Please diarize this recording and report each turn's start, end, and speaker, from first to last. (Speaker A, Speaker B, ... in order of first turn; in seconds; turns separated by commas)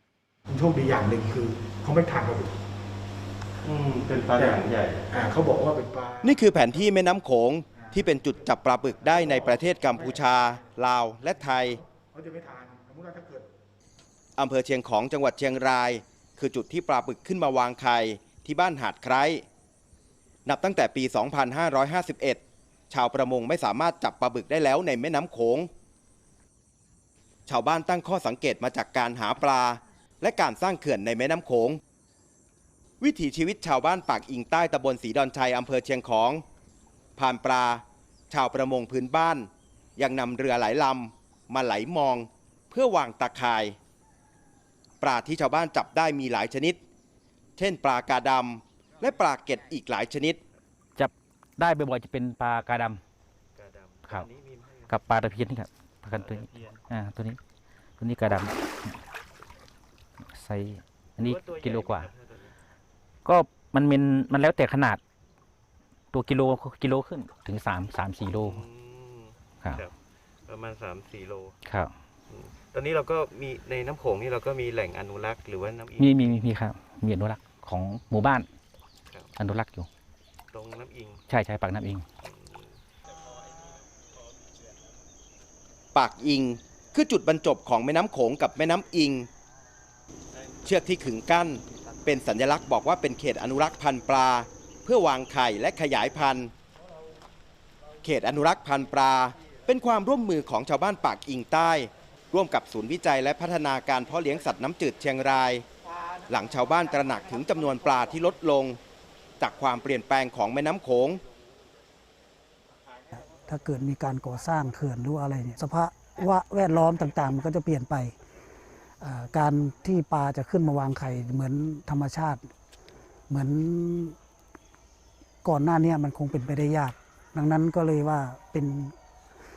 Speaker A: 0.5-2.5, Speaker B: 3.6-5.1, Speaker A: 4.3-6.8, Speaker C: 6.2-11.8, Speaker A: 7.8-10.3, Speaker A: 11.9-13.5, Speaker C: 14.4-19.4, Speaker C: 20.5-25.7, Speaker C: 27.5-31.8, Speaker C: 33.0-36.4, Speaker C: 37.2-43.8, Speaker C: 45.0-46.8, Speaker C: 47.6-50.4, Speaker D: 51.0-53.0, Speaker B: 53.5-55.0, Speaker D: 54.9-57.4, Speaker B: 56.1-56.9, Speaker D: 58.0-59.0, Speaker D: 60.3-62.1, Speaker B: 61.2-62.6, Speaker D: 63.2-65.0, Speaker D: 66.1-68.6, Speaker B: 68.5-70.0, Speaker B: 70.5-71.6, Speaker D: 71.7-71.9, Speaker B: 72.3-76.5, Speaker D: 76.0-78.5, Speaker B: 79.1-79.4, Speaker D: 79.4-79.9, Speaker B: 80.5-81.2, Speaker D: 81.3-82.0, Speaker B: 82.2-82.8, Speaker C: 86.0-89.3, Speaker C: 90.6-96.5, Speaker C: 98.0-105.7, Speaker C: 106.3-108.8, Speaker C: 109.4-111.2, Speaker E: 113.4-118.2, Speaker E: 119.0-122.5, Speaker E: 123.3-124.2, Speaker E: 125.4-128.9